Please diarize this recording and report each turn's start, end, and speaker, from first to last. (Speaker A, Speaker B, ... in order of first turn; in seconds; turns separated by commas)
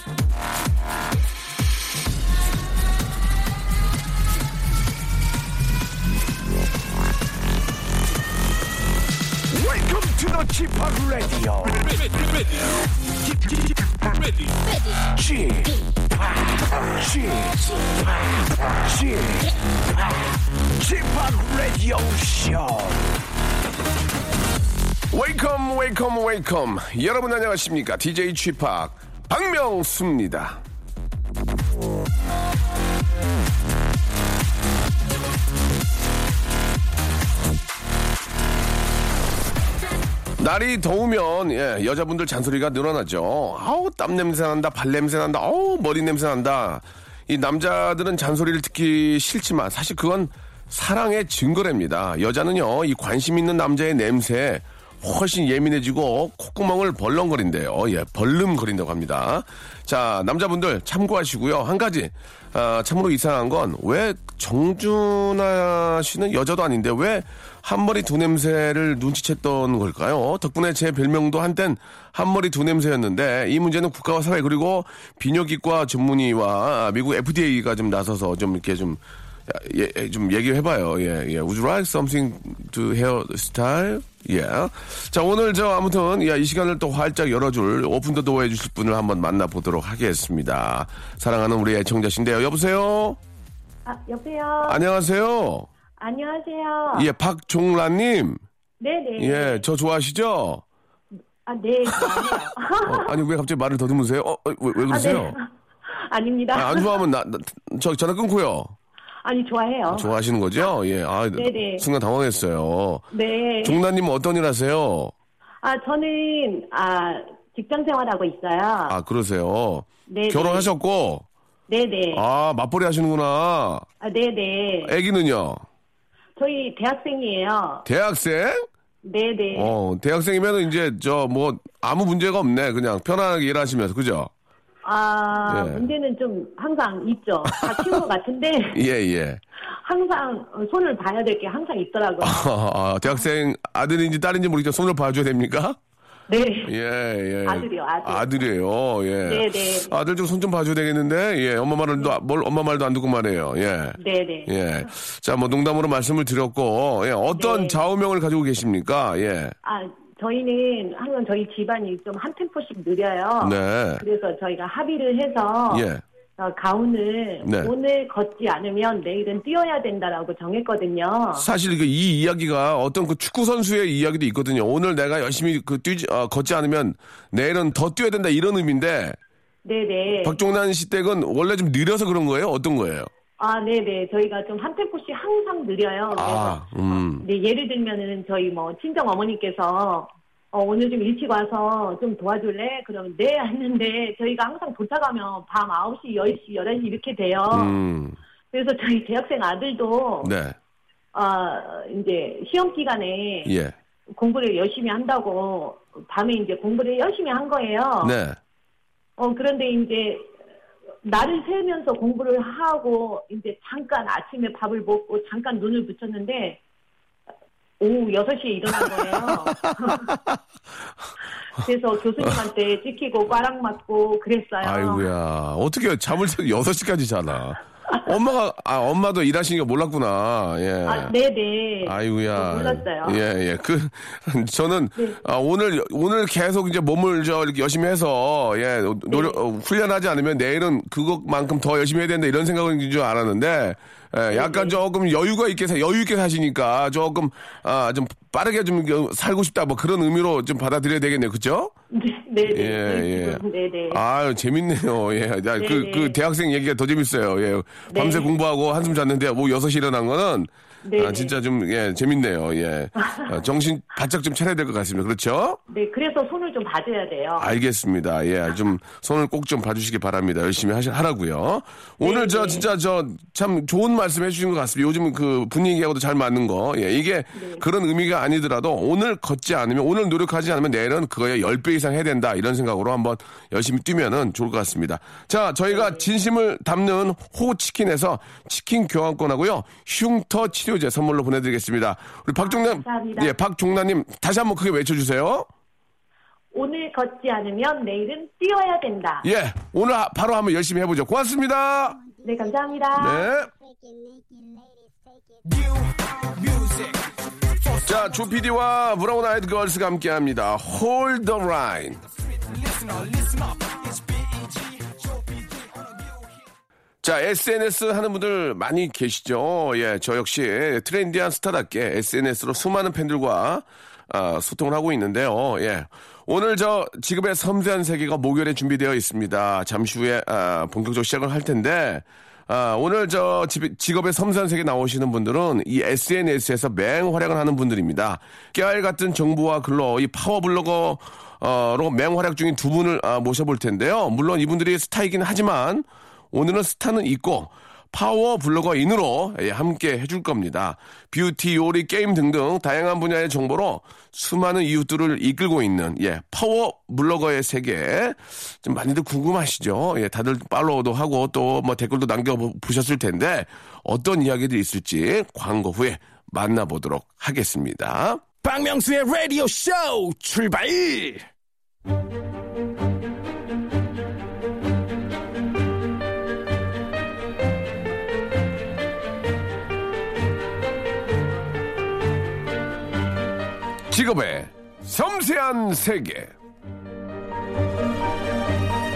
Speaker A: 9.5-12.4, Speaker A: 13.3-14.4, Speaker A: 15.0-23.2, Speaker A: 25.1-30.6, Speaker A: 40.4-93.2, Speaker B: 93.8-94.8, Speaker A: 94.7-95.7, Speaker B: 96.0-97.1, Speaker A: 96.9-98.4, Speaker B: 98.8-99.7, Speaker A: 99.2-100.6, Speaker B: 101.5-103.2, Speaker A: 102.0-102.3, Speaker A: 102.8-105.3, Speaker B: 104.9-106.9, Speaker A: 106.5-108.7, Speaker B: 109.2-110.1, Speaker A: 109.9-113.0, Speaker B: 111.3-111.9, Speaker B: 113.1-113.8, Speaker A: 113.6-115.1, Speaker B: 115.6-119.0, Speaker A: 118.9-121.2, Speaker B: 120.1-120.7, Speaker B: 121.7-122.2, Speaker A: 122.1-123.8, Speaker B: 124.0-124.9, Speaker A: 124.8-125.6, Speaker B: 126.4-127.8, Speaker A: 127.8-128.7, Speaker B: 129.0-129.8, Speaker A: 129.5-134.3, Speaker B: 134.8-138.8, Speaker A: 135.5-135.8, Speaker A: 137.5-138.0, Speaker A: 138.7-139.4, Speaker B: 139.8-142.5, Speaker A: 142.2-145.8, Speaker B: 146.3-146.7, Speaker A: 146.7-159.5, Speaker B: 147.4-148.3, Speaker B: 149.2-149.9, Speaker B: 154.0-154.5, Speaker B: 157.3-157.8, Speaker B: 159.6-165.9, Speaker A: 163.4-164.0, Speaker A: 165.7-166.0, Speaker B: 166.4-171.5, Speaker A: 167.4-167.7, Speaker A: 171.3-179.2, Speaker B: 179.6-180.4, Speaker A: 180.2-183.1, Speaker B: 183.4-186.6, Speaker A: 186.1-187.2, Speaker B: 187.2-197.8, Speaker A: 197.5-198.2, Speaker B: 198.5-200.3, Speaker A: 200.2-200.6, Speaker B: 201.1-203.5, Speaker A: 203.4-203.7, Speaker B: 204.1-208.1, Speaker A: 208.0-208.4, Speaker B: 209.2-210.3, Speaker B: 211.0-216.6, Speaker B: 217.8-220.1, Speaker A: 218.8-220.4, Speaker B: 221.6-225.1, Speaker A: 224.6-231.1, Speaker B: 230.8-233.2, Speaker A: 231.8-251.7, Speaker B: 239.1-239.4, Speaker B: 244.3-244.8, Speaker B: 251.9-254.0, Speaker A: 252.5-253.4, Speaker A: 253.9-265.6, Speaker B: 255.6-256.2, Speaker B: 257.9-258.3, Speaker B: 260.8-261.4, Speaker B: 263.0-263.4, Speaker B: 265.7-267.5, Speaker A: 267.4-295.5, Speaker B: 272.0-272.7, Speaker B: 277.4-277.6, Speaker B: 285.7-286.0, Speaker B: 292.4-293.4, Speaker B: 296.5-299.2, Speaker A: 299.2-302.1, Speaker B: 302.2-303.3, Speaker A: 303.0-303.5, Speaker C: 305.4-307.0, Speaker C: 307.6-308.0, Speaker A: 307.8-312.0, Speaker C: 312.4-316.0, Speaker A: 317.0-368.2, Speaker C: 368.4-371.2, Speaker A: 383.9-386.3